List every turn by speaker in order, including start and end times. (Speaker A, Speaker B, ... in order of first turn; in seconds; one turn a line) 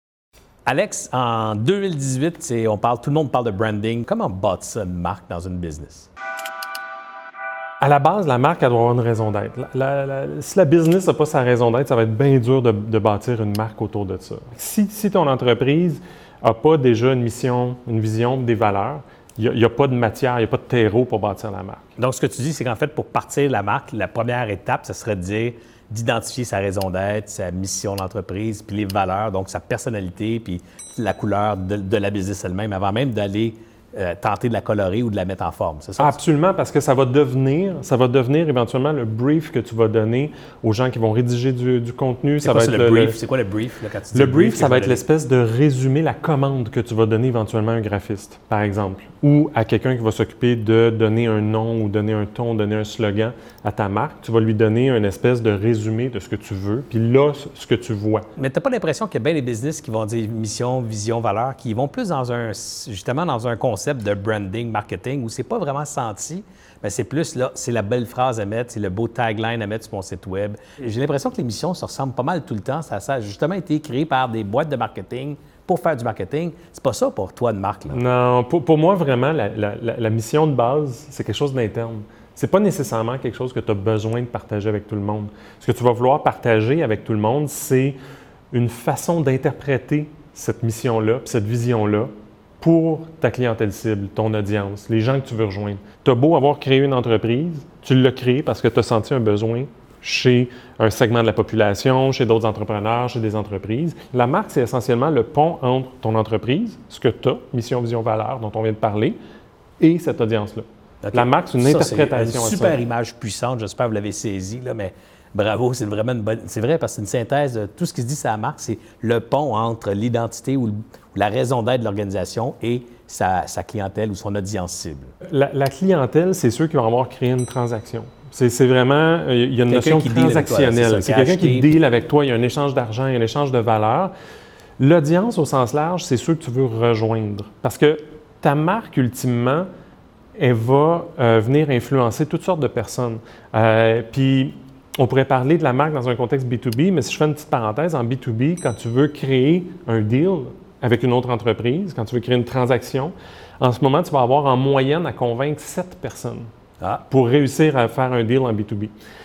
Speaker A: 0.7-6.1
Speaker B: 7.8-21.9
Speaker A: 22.0-36.2
Speaker B: 36.0-43.2
Speaker A: 42.4-45.0
Speaker B: 44.1-58.3
Speaker A: 58.4-78.0
Speaker B: 77.9-88.0
Speaker B: 88.5-109.2
Speaker B: 109.8-112.8
Speaker A: 111.0-125.1
Speaker B: 125.2-134.1
Speaker A: 129.7-131.7
Speaker B: 134.8-139.7
Speaker B: 140.4-156.5
Speaker B: 157.1-158.9